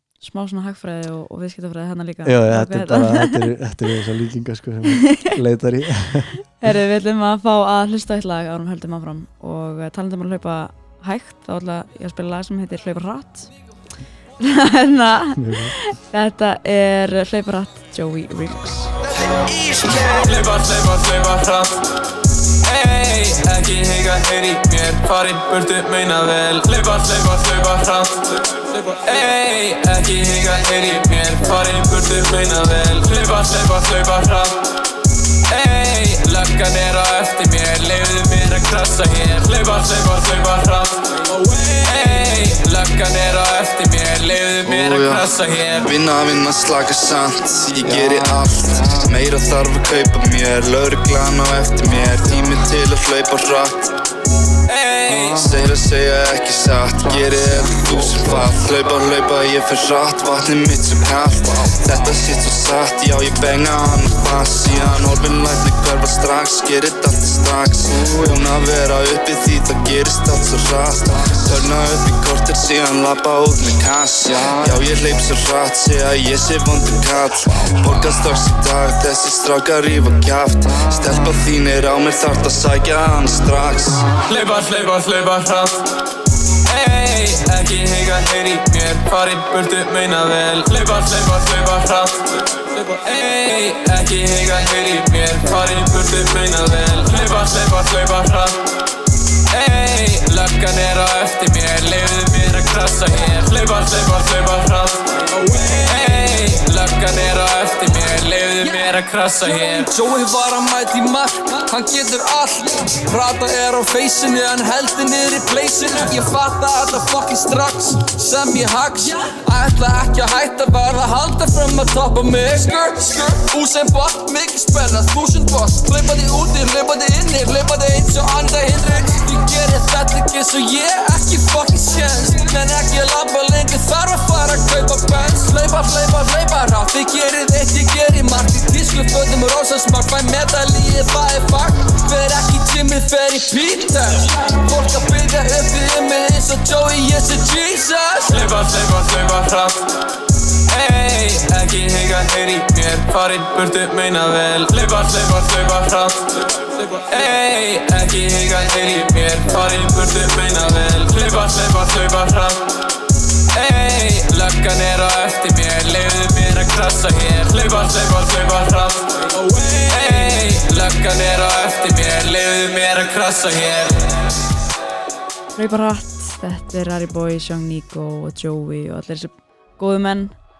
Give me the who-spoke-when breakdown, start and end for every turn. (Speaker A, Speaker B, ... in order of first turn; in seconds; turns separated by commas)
Speaker A: 0.2-3.5, Speaker B: 2.2-6.4, Speaker A: 4.9-5.3, Speaker A: 6.5-13.5, Speaker A: 14.4-18.9, Speaker B: 15.3-15.8, Speaker C: 19.4-19.9, Speaker D: 20.0-21.9, Speaker D: 22.6-34.6, Speaker D: 35.5-45.9, Speaker E: 44.6-54.0, Speaker D: 54.7-55.7, Speaker E: 55.1-84.2, Speaker D: 84.2-85.9, Speaker D: 86.7-98.7, Speaker D: 99.5-105.2, Speaker C: 105.3-106.1, Speaker D: 105.8-109.9, Speaker C: 108.6-148.4, Speaker D: 148.3-149.9, Speaker D: 150.7-162.7, Speaker D: 163.5-174.2, Speaker A: 175.6-180.3